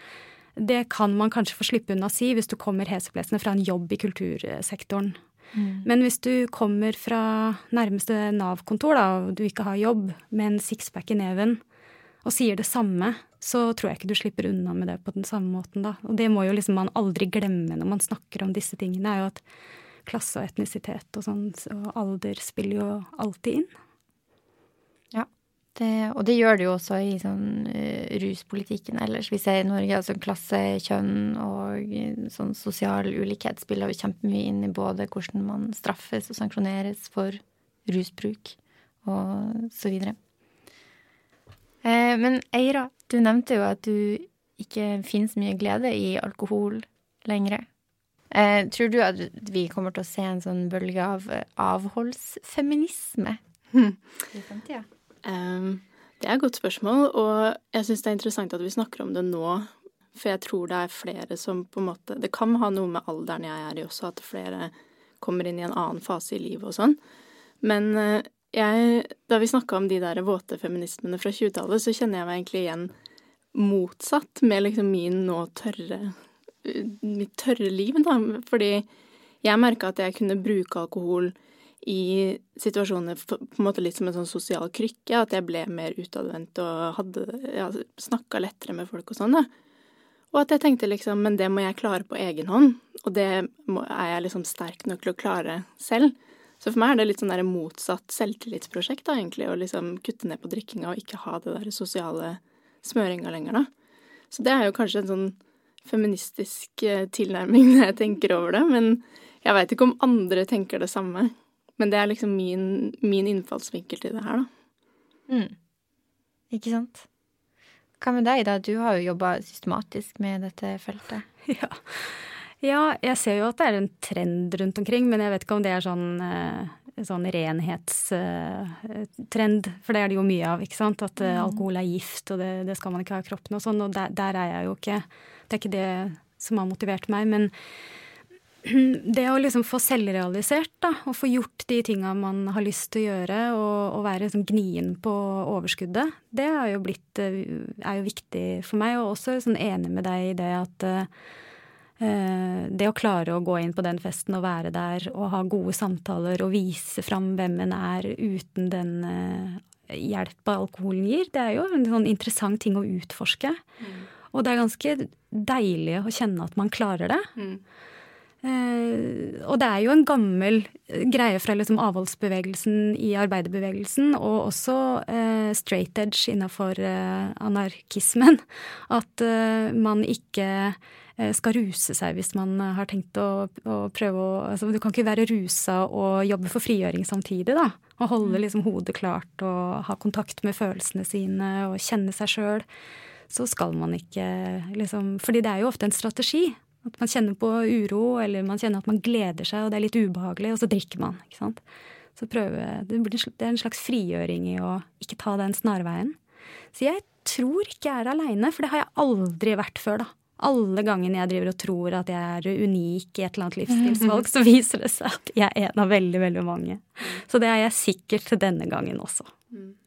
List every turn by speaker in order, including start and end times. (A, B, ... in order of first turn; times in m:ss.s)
0:00.6-0:05.2 A
0:05.5-0:05.8 B
0:05.8-0:11.6 A
0:12.2-0:19.4 A
0:20.0-0:23.7 A
0:25.1-0:40.2 B
0:41.8-0:47.6 B
0:48.3-0:53.4 B
0:53.7-0:54.0 C
0:54.3-0:54.9 B
0:55.2-1:07.0 C
1:07.6-1:12.9 C
1:13.5-1:18.9 C
1:19.4-1:29.5 C
1:30.3-1:43.7 C
1:44.3-1:54.5 C
1:55.3-1:55.5 B
1:56.5-1:57.0 B
1:58.0-2:01.2 B
2:01.5-2:17.5 A
2:11.2-2:11.6 B
2:18.6-2:31.1 A
2:32.0-2:43.6 A
2:43.8-2:44.0 C
2:44.3-2:47.3 A
2:47.4-2:47.6 C
2:48.4-3:12.6 A
3:13.3-3:21.6 A
3:22.2-3:26.2 A
3:26.7-3:39.3 A